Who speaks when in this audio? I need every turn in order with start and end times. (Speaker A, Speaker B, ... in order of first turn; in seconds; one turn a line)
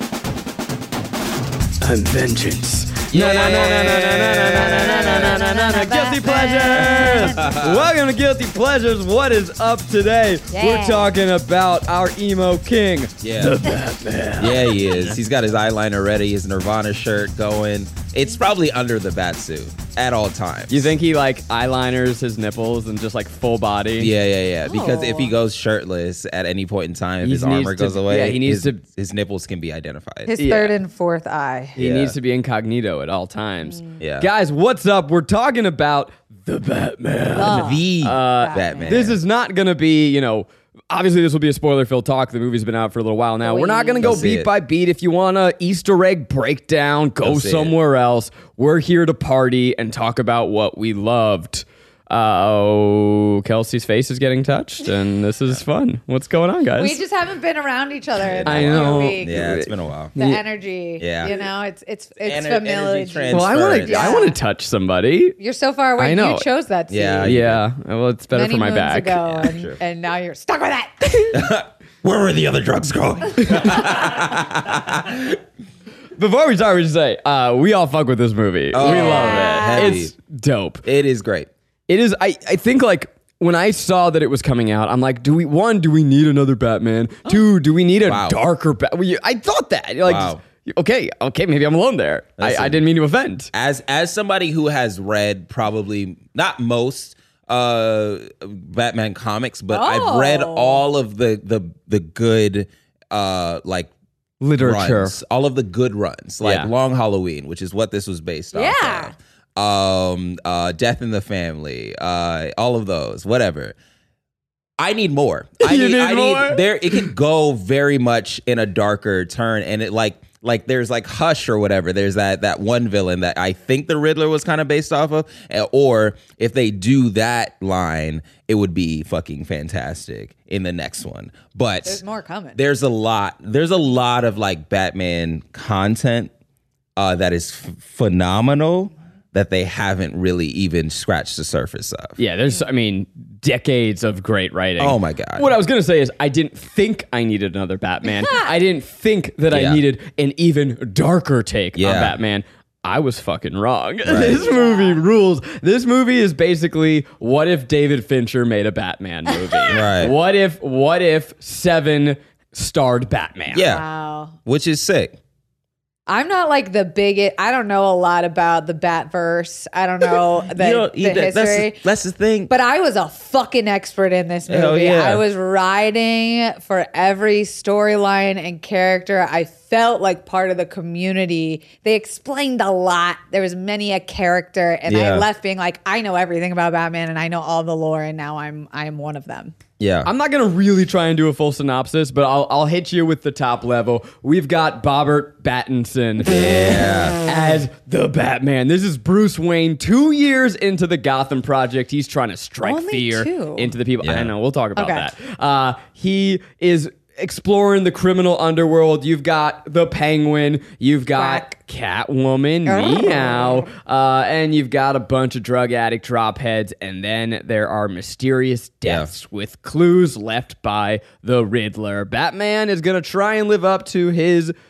Speaker A: 1.8-15.2
Speaker B: 3.1-5.5
Speaker C: 5.0-7.5
Speaker B: 6.7-7.9
Speaker C: 10.5-11.1
Speaker B: 13.2-13.6
Speaker B: 14.4-20.9
Speaker A: 20.7-24.1
Speaker B: 24.0-30.4
Speaker C: 24.6-25.3
Speaker A: 27.2-28.8
Speaker C: 30.3-31.8
Speaker A: 30.4-30.7
Speaker B: 31.8-32.1
Speaker A: 31.8-57.0
Speaker C: 33.6-34.0
Speaker B: 34.0-34.3
Speaker C: 37.3-39.1
Speaker B: 37.4-39.2
Speaker C: 43.4-44.2
Speaker B: 44.0-44.5
Speaker B: 47.2-47.7
Speaker C: 56.8-59.3
Speaker B: 58.2-60.1
Speaker A: 58.5-60.4
Speaker C: 60.2-64.4
Speaker B: 61.0-61.3
Speaker B: 62.2-64.2
Speaker A: 63.3-65.4
Speaker C: 65.4-67.4
Speaker A: 66.0-66.5
Speaker B: 66.9-67.6
Speaker A: 67.2-69.4
Speaker C: 68.3-71.5
Speaker B: 69.3-69.8
Speaker B: 71.3-75.4
Speaker A: 73.4-73.8
Speaker A: 76.2-80.8
Speaker B: 78.7-80.1
Speaker C: 78.8-80.0
Speaker B: 80.8-81.5
Speaker A: 81.9-93.5
Speaker B: 88.0-88.4
Speaker B: 90.0-90.4
Speaker B: 92.4-92.8
Speaker B: 93.5-103.9
Speaker C: 99.7-100.8
Speaker A: 104.4-105.2
Speaker B: 104.6-113.8
Speaker A: 106.4-106.7
Speaker C: 108.5-109.2
Speaker B: 114.8-132.0
Speaker A: 115.6-117.1
Speaker C: 131.8-132.6
Speaker B: 132.6-136.3
Speaker B: 137.0-142.2
Speaker A: 142.2-163.7
Speaker B: 144.8-145.5
Speaker C: 148.1-148.5
Speaker B: 149.5-149.8
Speaker B: 151.8-152.1
Speaker B: 154.1-154.5
Speaker C: 154.2-155.0
Speaker C: 159.3-159.8
Speaker B: 159.7-160.2
Speaker B: 163.5-163.8
Speaker C: 163.6-164.4
Speaker B: 164.4-165.1
Speaker C: 166.1-171.8
Speaker B: 170.5-172.5
Speaker C: 172.5-189.6
Speaker B: 174.5-175.2
Speaker B: 184.9-185.3
Speaker B: 189.8-190.1
Speaker A: 190.1-224.5
Speaker B: 196.2-197.2
Speaker C: 202.6-203.8
Speaker B: 204.0-204.3
Speaker C: 204.8-205.1
Speaker C: 211.1-211.6
Speaker C: 212.7-213.7
Speaker B: 218.8-219.1